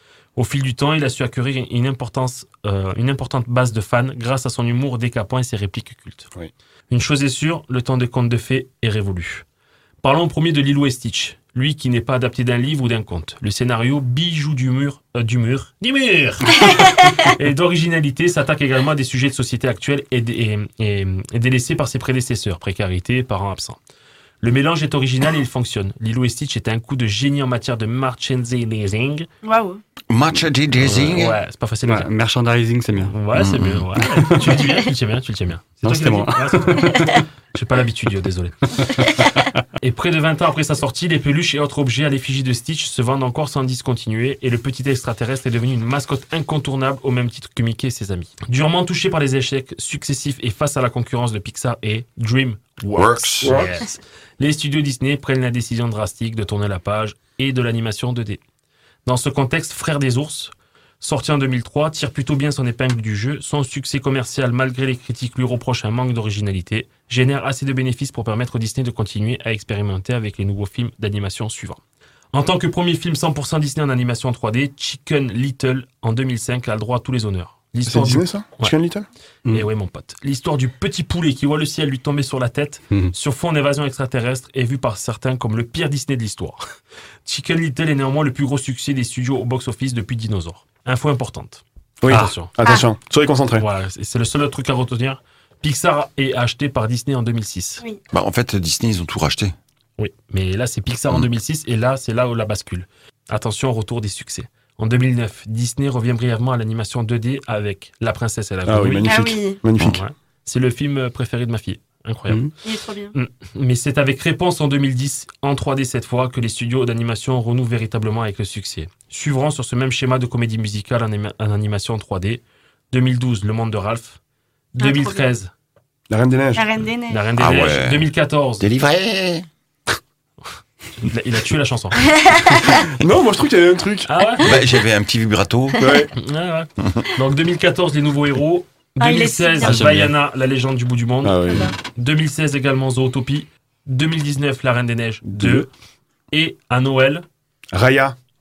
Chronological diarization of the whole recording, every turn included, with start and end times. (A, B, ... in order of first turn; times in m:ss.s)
0:00.4-0:06.3 A
0:06.9-0:09.4 A
0:10.0-0:23.8 A
0:24.4-0:29.3 A
0:29.4-0:29.8 B
0:30.1-0:31.4 C
0:30.8-0:32.1 A
0:31.8-0:33.2 D
0:33.0-0:38.5 A
0:33.3-0:34.0 C
0:35.8-0:37.2 D
0:39.8-0:58.4 A
0:52.9-0:53.8 C
0:59.0-1:11.8 A
1:12.3-1:18.7 A
1:17.9-1:19.0 E
1:19.5-1:26.6 A
1:27.2-1:32.5 A
1:32.0-1:33.6 E
1:33.6-1:37.8 A
1:38.1-1:39.5 C
1:40.0-1:49.2 A
1:48.7-1:50.0 E
1:49.0-1:49.6 B
1:49.8-1:52.4 A
1:52.6-1:53.1 B
1:53.1-2:04.2 A
2:04.8-2:05.5 A
2:04.8-2:05.2 B
2:06.1-2:06.6 E
2:06.6-2:07.2 B
2:07.1-2:08.7 A
2:07.4-2:08.1 C
2:08.6-2:09.4 C
2:11.0-2:12.6 A
2:12.2-2:12.7 B
2:13.0-2:14.1 E
2:14.1-2:14.5 A
2:14.4-2:15.8 C
2:15.8-2:16.1 E
2:16.2-2:25.7 A
2:19.0-2:19.8 B
2:19.6-2:20.1 D
2:21.2-2:21.7 E
2:25.2-2:25.6 E
2:26.3-2:27.2 A
2:27.7-2:28.1 E